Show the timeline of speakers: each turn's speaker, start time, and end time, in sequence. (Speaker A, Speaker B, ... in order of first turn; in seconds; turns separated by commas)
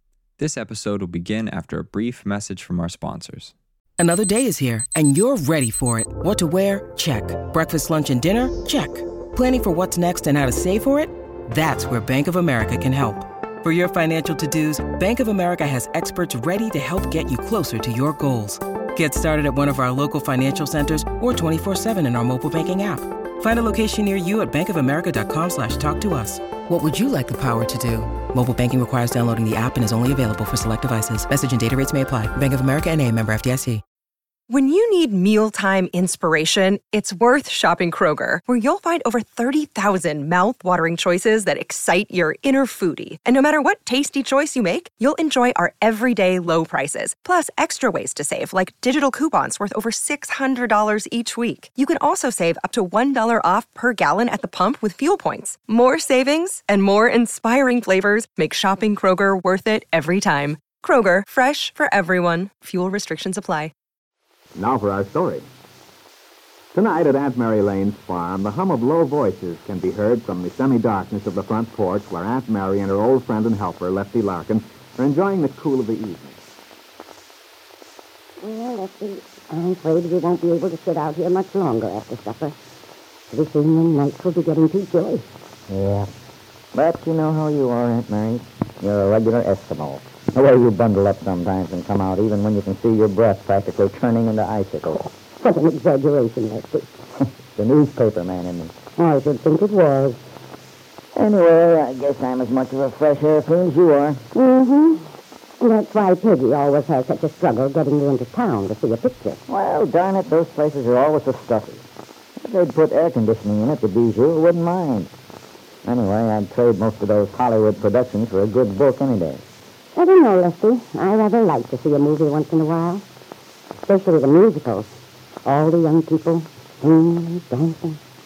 Speaker A: 0.4-3.5, Speaker B: 4.0-33.8, Speaker C: 34.5-63.7, Speaker D: 64.5-65.5, Speaker D: 66.7-76.4, Speaker E: 78.4-82.6, Speaker E: 83.3-85.3, Speaker F: 85.7-86.1, Speaker F: 86.7-95.1, Speaker E: 95.4-96.9, Speaker F: 97.5-98.7, Speaker E: 99.0-100.2, Speaker F: 101.2-104.3, Speaker E: 104.3-105.1, Speaker E: 105.6-109.4, Speaker F: 109.5-111.8, Speaker F: 112.4-115.1, Speaker F: 115.8-119.4, Speaker E: 120.0-123.0, Speaker E: 123.8-124.9, Speaker E: 125.5-128.0